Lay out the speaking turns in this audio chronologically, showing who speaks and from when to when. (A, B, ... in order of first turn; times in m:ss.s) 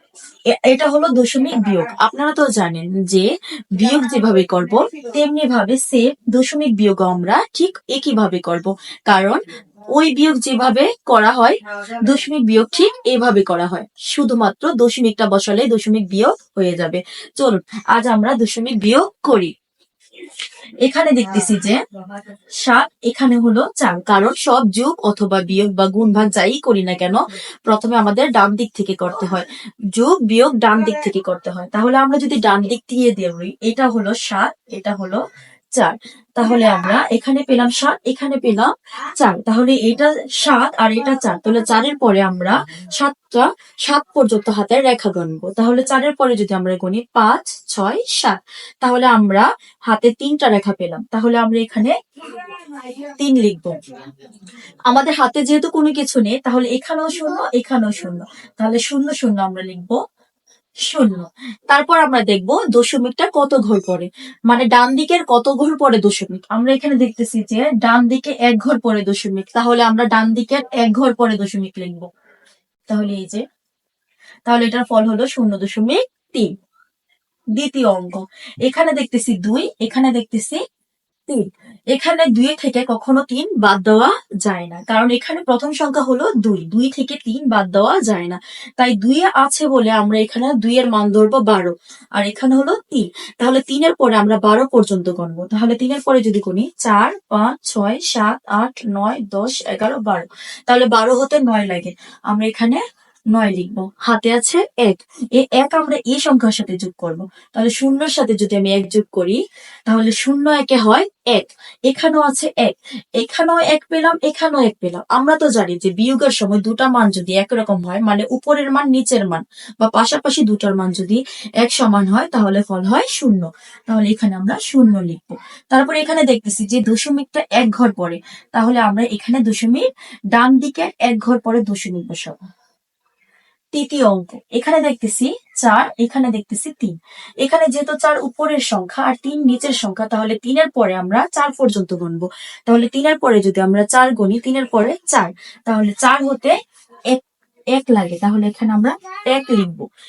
0:00.5-0:09.4 A
0:09.9-0:19.5 A
0:20.8-0:21.8 A
0:22.6-0:35.2 A
0:35.8-0:53.8 A
0:54.9-1:00.0 A
1:00.9-1:12.1 A
1:12.9-1:13.4 A
1:14.5-1:16.5 A
1:17.6-1:20.6 A
1:21.3-1:42.8 A
1:43.3-2:12.4 A
2:13.7-2:26.6 A
2:27.8-2:29.8 A